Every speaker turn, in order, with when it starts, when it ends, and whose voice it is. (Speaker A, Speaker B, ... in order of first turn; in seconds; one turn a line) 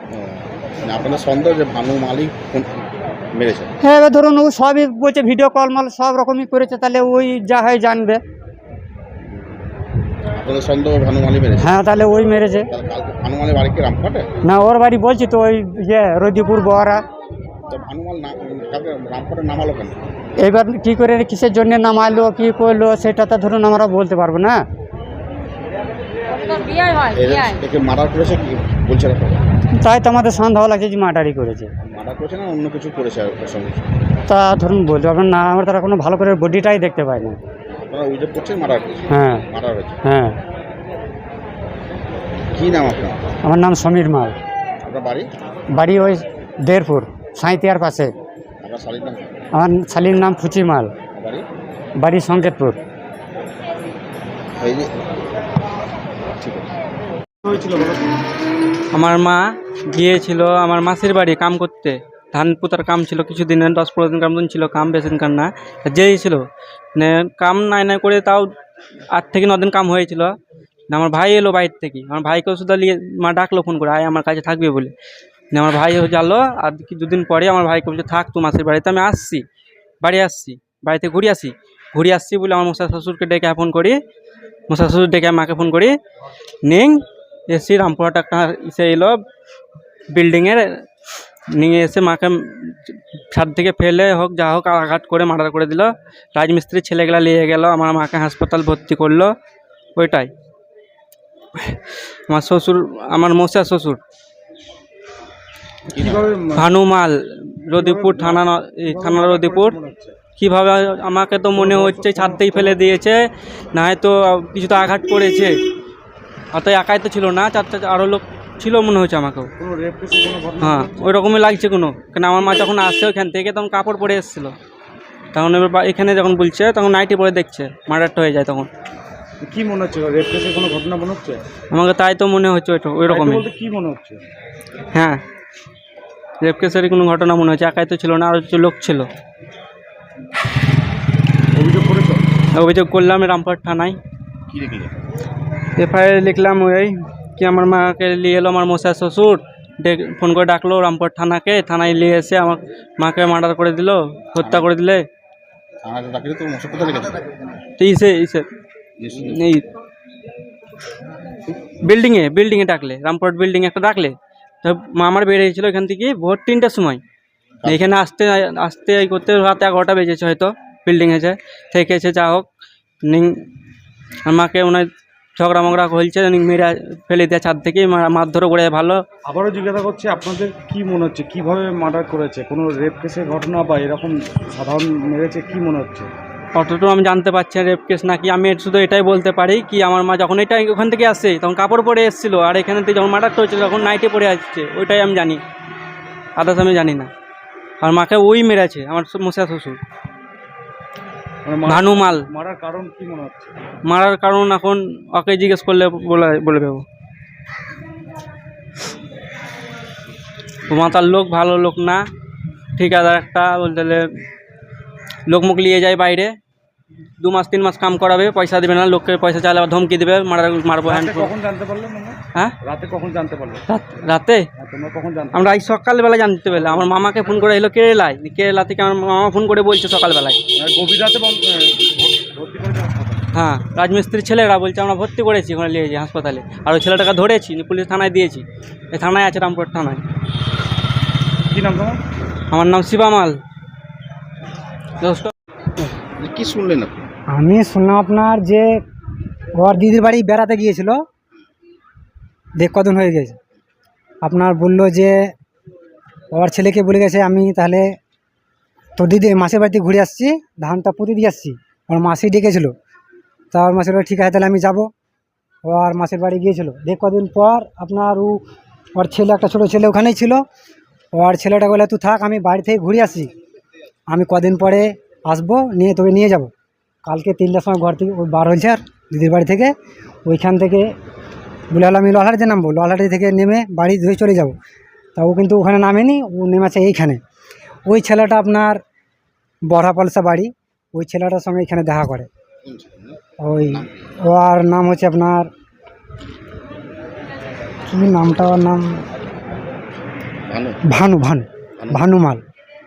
Speaker A: 0.1-2.8
Speaker A: 3.3-3.7
Speaker B: 3.8-8.2
Speaker A: 10.3-11.8
Speaker B: 11.6-12.7
Speaker A: 12.7-14.3
Speaker B: 14.5-17.0
Speaker A: 17.7-20.0
Speaker B: 20.4-24.6
Speaker A: 27.0-29.4
Speaker B: 29.8-31.7
Speaker A: 31.8-33.9
Speaker B: 34.3-37.4
Speaker A: 37.7-40.0
Speaker B: 39.1-39.4
Speaker B: 40.0-40.4
Speaker A: 42.5-43.3
Speaker B: 43.4-44.4
Speaker A: 44.8-45.3
Speaker B: 45.7-48.1
Speaker A: 48.6-49.3
Speaker B: 49.5-50.9
Speaker A: 51.1-51.4
Speaker B: 52.0-52.8
Speaker A: 54.6-54.9
Speaker A: 56.4-56.7
Speaker C: 57.4-58.0
Speaker D: 58.9-59.4
Speaker D: 59.9-66.4
Speaker D: 67.0-68.5
Speaker D: 69.1-70.3
Speaker D: 70.9-74.9
Speaker D: 75.5-79.4
Speaker D: 80.0-84.0
Speaker D: 84.7-86.0
Speaker D: 86.7-89.2
Speaker D: 90.1-90.7
Speaker D: 91.6-92.7
Speaker D: 93.3-99.3
Speaker D: 100.0-100.3
Speaker D: 102.3-104.0
Speaker A: 105.9-106.3
Speaker C: 106.0-106.7
Speaker D: 106.5-109.8
Speaker C: 107.7-110.2
Speaker D: 110.4-113.2
Speaker C: 111.5-112.8
Speaker D: 113.7-115.5
Speaker D: 116.5-119.5
Speaker C: 119.6-120.9
Speaker D: 120.6-124.5
Speaker D: 125.3-128.7
Speaker C: 129.4-131.4
Speaker D: 131.7-133.5
Speaker C: 133.1-134.2
Speaker D: 134.9-135.2
Speaker D: 136.4-139.1
Speaker C: 141.5-142.2
Speaker D: 142.5-144.0
Speaker A: 144.5-144.9
Speaker D: 145.8-155.0
Speaker A: 154.4-154.7
Speaker A: 155.8-157.3
Speaker D: 157.8-158.5
Speaker A: 159.0-159.4
Speaker D: 159.3-159.6
Speaker D: 161.8-167.0
Speaker D: 167.7-172.5
Speaker D: 174.2-179.0
Speaker C: 179.2-186.1
Speaker D: 186.5-195.4
Speaker D: 196.3-197.1
Speaker D: 197.8-199.8
Speaker C: 201.4-203.5
Speaker D: 201.6-202.2
Speaker D: 203.9-206.8
Speaker D: 210.7-212.0
Speaker D: 212.8-214.0
Speaker D: 215.3-216.3
Speaker D: 217.2-221.3
Speaker C: 220.8-223.6
Speaker D: 223.7-224.4
Speaker C: 224.6-225.3
Speaker D: 225.3-230.4
Speaker C: 230.6-233.2
Speaker D: 233.3-240.0
Speaker C: 241.5-242.0
Speaker D: 242.5-243.3
Speaker D: 245.0-245.3
Speaker A: 246.2-247.1
Speaker E: 247.3-248.8
Speaker E: 249.6-251.0
Speaker E: 252.6-253.4
Speaker E: 254.2-255.3
Speaker E: 256.3-257.9
Speaker E: 259.0-262.7
Speaker E: 263.5-264.9
Speaker E: 265.6-268.4
Speaker E: 268.9-270.4
Speaker E: 271.1-273.3
Speaker E: 274.1-276.5
Speaker E: 277.0-279.7
Speaker E: 280.2-280.9
Speaker E: 281.7-284.5
Speaker E: 285.2-287.2
Speaker E: 287.9-288.8
Speaker E: 289.7-292.3
Speaker A: 292.6-294.0
Speaker E: 293.4-295.5
Speaker E: 297.9-299.0
Speaker A: 300.5-300.8
Speaker E: 300.9-302.4